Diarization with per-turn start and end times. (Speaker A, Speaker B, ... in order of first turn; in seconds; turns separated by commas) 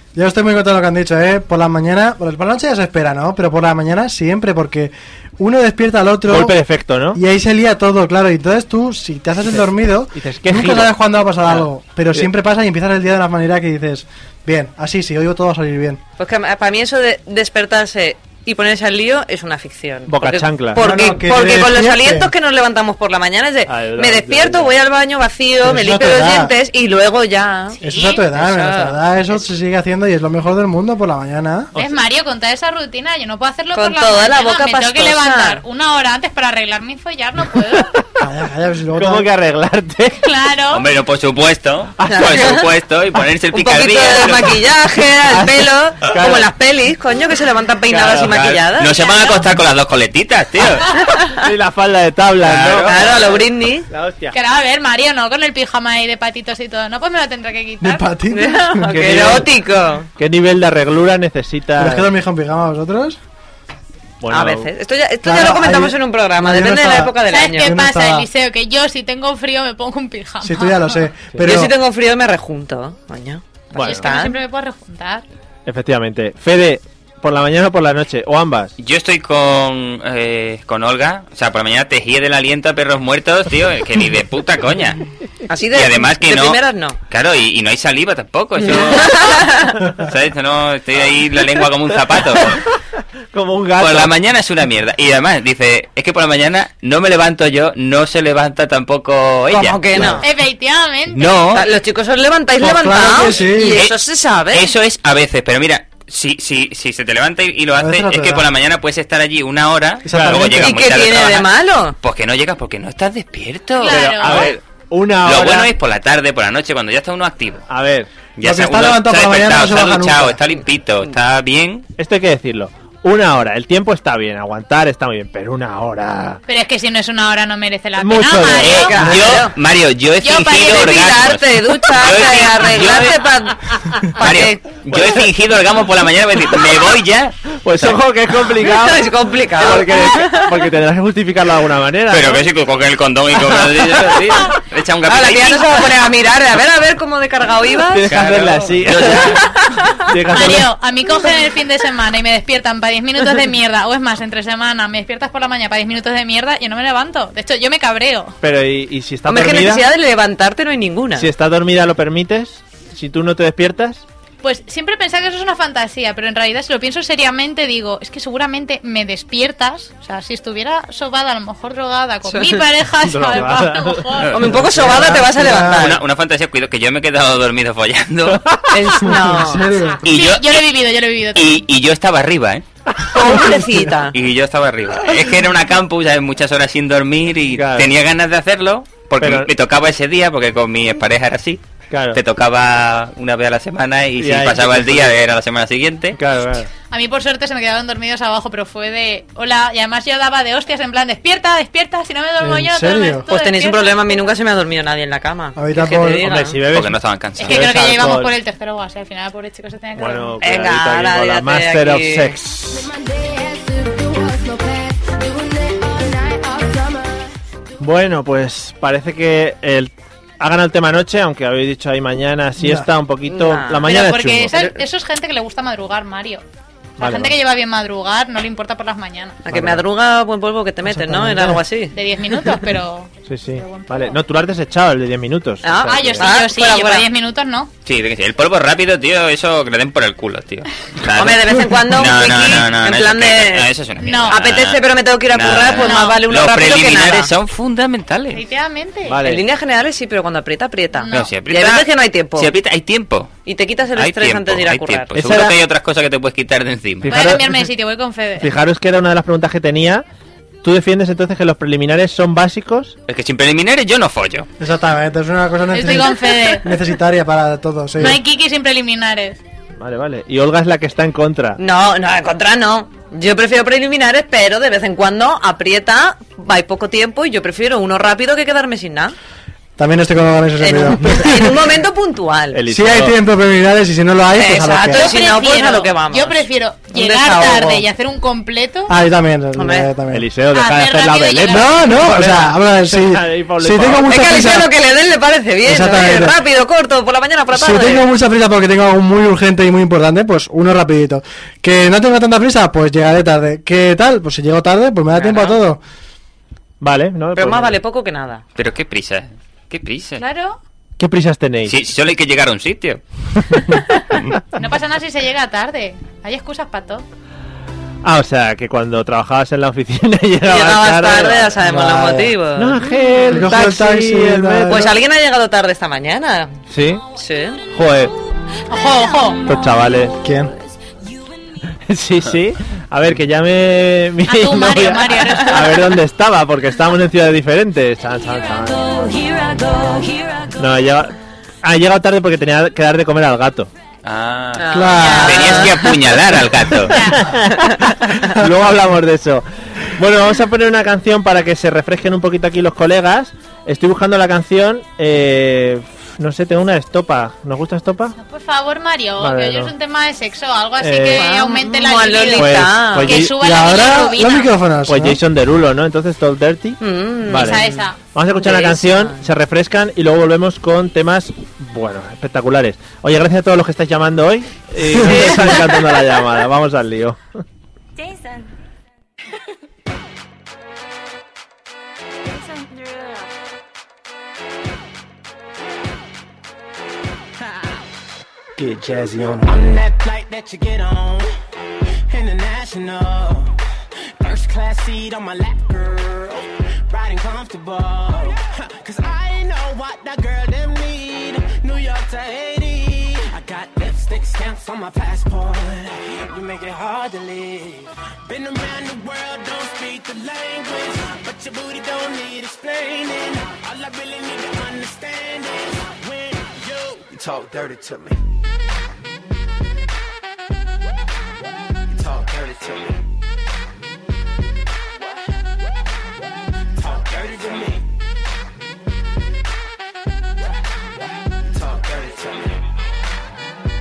Speaker A: 0.1-6.6, Speaker B: 6.3-7.2, Speaker A: 7.1-16.0, Speaker B: 10.2-10.9, Speaker B: 11.5-12.3, Speaker C: 16.2-27.8, Speaker B: 20.1-20.9, Speaker A: 20.8-22.3, Speaker B: 23.7-24.8, Speaker A: 25.6-26.5, Speaker D: 27.8-28.3, Speaker A: 27.8-31.7, Speaker C: 28.4-29.0, Speaker D: 31.8-37.9, Speaker C: 33.7-35.6, Speaker B: 37.8-38.0, Speaker A: 38.2-39.3, Speaker B: 39.0-40.2, Speaker D: 40.2-40.9, Speaker E: 40.7-44.6, Speaker B: 42.0-42.6, Speaker C: 42.1-42.7, Speaker C: 43.5-49.1, Speaker B: 45.3-46.5, Speaker B: 47.9-48.4, Speaker E: 48.2-50.9, Speaker D: 48.9-49.4, Speaker C: 51.0-51.5, Speaker B: 51.4-54.4, Speaker E: 52.4-53.4, Speaker C: 52.9-53.9, Speaker D: 54.3-58.1, Speaker A: 57.8-59.0, Speaker C: 58.3-60.1, Speaker B: 58.9-59.5, Speaker B: 60.2-62.1, Speaker A: 61.8-63.2, Speaker B: 64.2-64.7, Speaker C: 64.3-67.8, Speaker A: 65.2-68.3, Speaker D: 67.2-71.0, Speaker A: 70.4-71.7, Speaker C: 71.4-74.4, Speaker B: 73.8-74.1, Speaker D: 73.8-75.2, Speaker B: 75.7-78.7, Speaker E: 78.8-85.0, Speaker C: 85.5-87.0, Speaker E: 85.7-92.6, Speaker C: 88.6-89.8, Speaker B: 92.5-92.8, Speaker B: 93.3-94.1, Speaker E: 93.8-100.1, Speaker C: 99.5-100.3, Speaker D: 100.2-101.5, Speaker E: 101.1-101.6, Speaker C: 101.5-104.7, Speaker A: 102.6-103.8, Speaker E: 103.7-104.0, Speaker E: 104.5-111.5, Speaker A: 107.8-108.5, Speaker A: 110.0-110.8, Speaker B: 110.1-110.5, Speaker C: 110.6-112.0, Speaker E: 112.0-114.6, Speaker D: 113.8-114.5, Speaker B: 113.9-115.7, Speaker E: 115.2-117.7, Speaker B: 117.7-118.1, Speaker E: 118.4-121.9, Speaker A: 118.4-120.4, Speaker B: 122.0-126.4, Speaker D: 126.5-129.1, Speaker B: 128.0-129.3, Speaker C: 128.6-129.5, Speaker E: 128.7-133.2, Speaker D: 130.2-131.1, Speaker C: 130.6-134.8, Speaker E: 134.2-138.0, Speaker B: 134.9-135.3, Speaker B: 137.5-142.5, Speaker C: 138.6-140.6, Speaker E: 142.1-145.9, Speaker C: 145.1-148.1, Speaker B: 147.9-149.5, Speaker E: 148.1-149.5, Speaker B: 150.0-150.7, Speaker D: 150.3-158.4, Speaker B: 158.4-159.9, Speaker C: 159.3-161.3, Speaker B: 161.2-164.0, Speaker D: 164.4-174.4, Speaker C: 172.2-172.7, Speaker B: 173.0-175.2, Speaker C: 174.3-176.0, Speaker A: 174.7-175.9, Speaker E: 175.5-178.4, Speaker B: 178.3-179.0, Speaker C: 178.7-179.8, Speaker A: 179.1-180.1, Speaker E: 180.0-180.6, Speaker D: 180.1-181.5, Speaker E: 181.3-182.7, Speaker C: 183.1-184.2, Speaker A: 183.3-183.8, Speaker E: 184.1-196.2, Speaker B: 187.5-187.9, Speaker B: 189.2-189.5, Speaker B: 191.9-192.2, Speaker B: 194.2-195.2, Speaker B: 196.2-196.7, Speaker D: 196.9-204.3, Speaker A: 202.4-203.3, Speaker C: 203.3-206.6, Speaker A: 205.6-206.3, Speaker B: 206.2-208.3, Speaker E: 206.7-207.7, Speaker D: 207.4-210.4, Speaker B: 210.0-212.9, Speaker C: 210.4-212.3, Speaker F: 212.7-217.3, Speaker B: 217.8-224.6, Speaker A: 222.6-222.9, Speaker C: 223.2-223.9, Speaker D: 223.8-226.4, Speaker C: 224.5-224.8, Speaker B: 227.0-227.3, Speaker D: 227.0-229.4, Speaker C: 229.4-231.9, Speaker B: 229.5-229.8, Speaker B: 231.0-231.5, Speaker D: 231.9-234.2, Speaker B: 233.3-236.3, Speaker C: 235.6-237.1, Speaker D: 235.8-237.7, Speaker E: 237.9-248.4, Speaker C: 241.2-243.7, Speaker D: 244.0-244.4, Speaker C: 244.3-247.3, Speaker D: 245.8-246.2, Speaker D: 248.3-249.2, Speaker B: 249.1-249.4, Speaker C: 249.2-252.5, Speaker D: 251.0-251.3, Speaker E: 251.1-253.3, Speaker C: 253.5-255.2, Speaker E: 254.0-257.1, Speaker B: 255.2-255.6, Speaker B: 257.1-257.6, Speaker D: 257.1-258.5, Speaker B: 258.4-260.0, Speaker B: 260.6-262.9, Speaker E: 263.1-264.5, Speaker A: 264.6-268.2, Speaker D: 265.7-266.8, Speaker D: 268.0-269.4, Speaker B: 269.8-271.6, Speaker C: 271.6-279.2, Speaker A: 279.8-281.6, Speaker C: 280.6-282.6, Speaker B: 282.5-283.1, Speaker A: 282.7-285.1, Speaker C: 284.4-287.9, Speaker D: 284.9-288.9, Speaker A: 288.9-290.3, Speaker C: 289.6-289.9, Speaker B: 290.1-294.1, Speaker D: 290.5-291.8, Speaker A: 291.5-294.7, Speaker C: 294.1-298.1, Speaker A: 295.6-296.4, Speaker A: 297.5-305.8, Speaker C: 305.2-305.6, Speaker B: 306.8-307.8, Speaker C: 307.4-308.4, Speaker E: 308.6-310.2, Speaker D: 310.2-310.6, Speaker B: 311.0-311.8, Speaker E: 311.7-313.0, Speaker B: 313.4-313.8, Speaker D: 314.6-317.1, Speaker B: 318.0-321.6, Speaker C: 320.4-323.2, Speaker A: 321.6-322.4, Speaker B: 322.6-324.9, Speaker A: 323.3-324.9, Speaker C: 324.7-326.6, Speaker B: 326.7-327.0, Speaker C: 327.2-327.6, Speaker B: 327.7-328.1, Speaker D: 328.7-329.4, Speaker B: 329.4-330.2, Speaker A: 330.2-330.5, Speaker B: 331.9-338.9, Speaker D: 334.2-336.0, Speaker F: 338.3-340.6, Speaker B: 340.6-343.7, Speaker E: 344.0-347.0, Speaker C: 344.6-346.2, Speaker A: 344.7-345.6, Speaker D: 345.0-345.4, Speaker D: 346.9-347.3, Speaker B: 347.1-358.2, Speaker C: 347.6-347.9, Speaker D: 358.2-364.6, Speaker B: 359.2-359.7, Speaker B: 360.8-361.2, Speaker C: 361.1-363.2, Speaker B: 362.4-363.4, Speaker A: 363.3-365.2, Speaker B: 364.9-377.2, Speaker C: 366.8-367.9, Speaker D: 367.3-368.0, Speaker C: 368.4-369.2, Speaker F: 378.0-378.5, Speaker F: 382.2-383.3, Speaker G: 388.6-391.3, Speaker G: 392.1-393.6, Speaker G: 394.2-418.2, Speaker G: 421.9-423.0, Speaker G: 426.7-427.9, Speaker G: 431.4-432.6